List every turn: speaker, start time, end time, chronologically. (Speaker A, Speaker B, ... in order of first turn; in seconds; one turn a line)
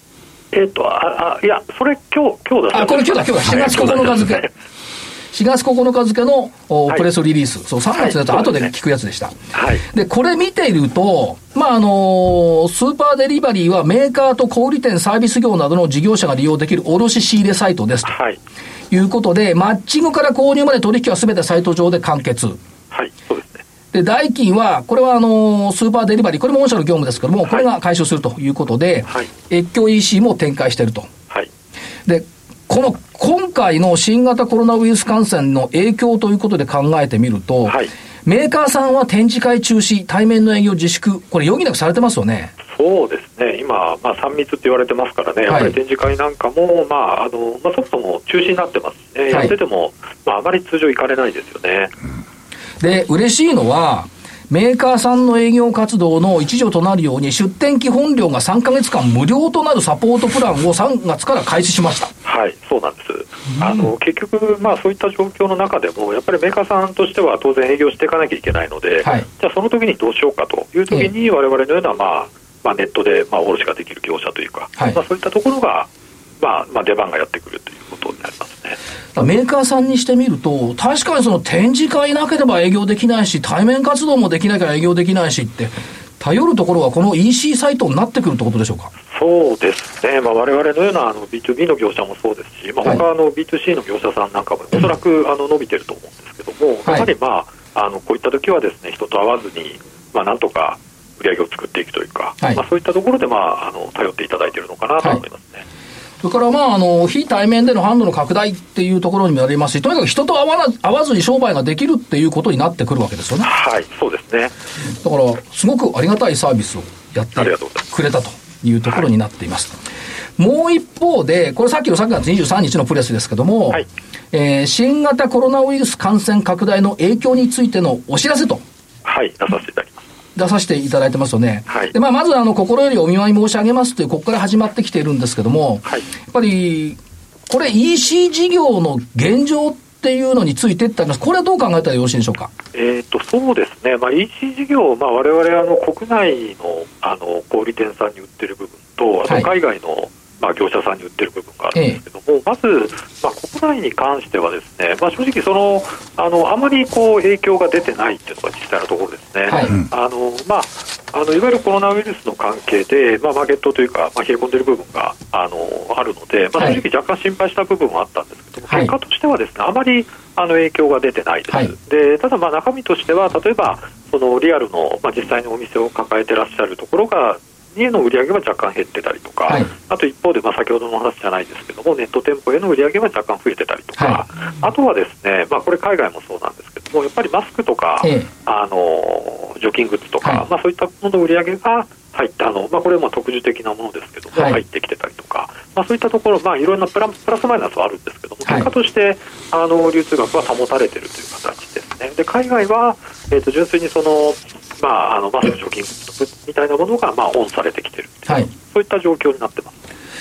Speaker A: 0.5-4.5
Speaker B: 2.7-4.5
Speaker B: 5.3-9.3
Speaker A: 8.0-8.7
Speaker A: 9.5-9.8
Speaker B: 9.9-18.1
Speaker A: 18.1-18.4
Speaker B: 18.9-22.6
Speaker A: 22.9-23.6
Speaker B: 23.9-31.1
Speaker B: 32.1-42.5
Speaker A: 42.7-51.9
Speaker B: 45.5-45.8
Speaker B: 52.8-62.1
Speaker A: 62.2-75.9
Speaker A: 76.4-78.8
Speaker B: 79.2-88.9
Speaker A: 89.1-105.6
Speaker B: 106.2-113.5
Speaker A: 113.4-114.5
Speaker B: 115.0-119.8
Speaker A: 117.3-117.8
Speaker B: 120.4-128.6
Speaker A: 129.1-130.0
Speaker B: 130.3-142.5
Speaker A: 131.7-131.9
Speaker A: 142.7-209.7
Speaker B: 151.7-152.0
Speaker B: 159.5-159.8
Speaker B: 168.7-168.9
Speaker B: 184.0-184.2
Speaker B: 188.0-188.3
Speaker B: 194.3-194.6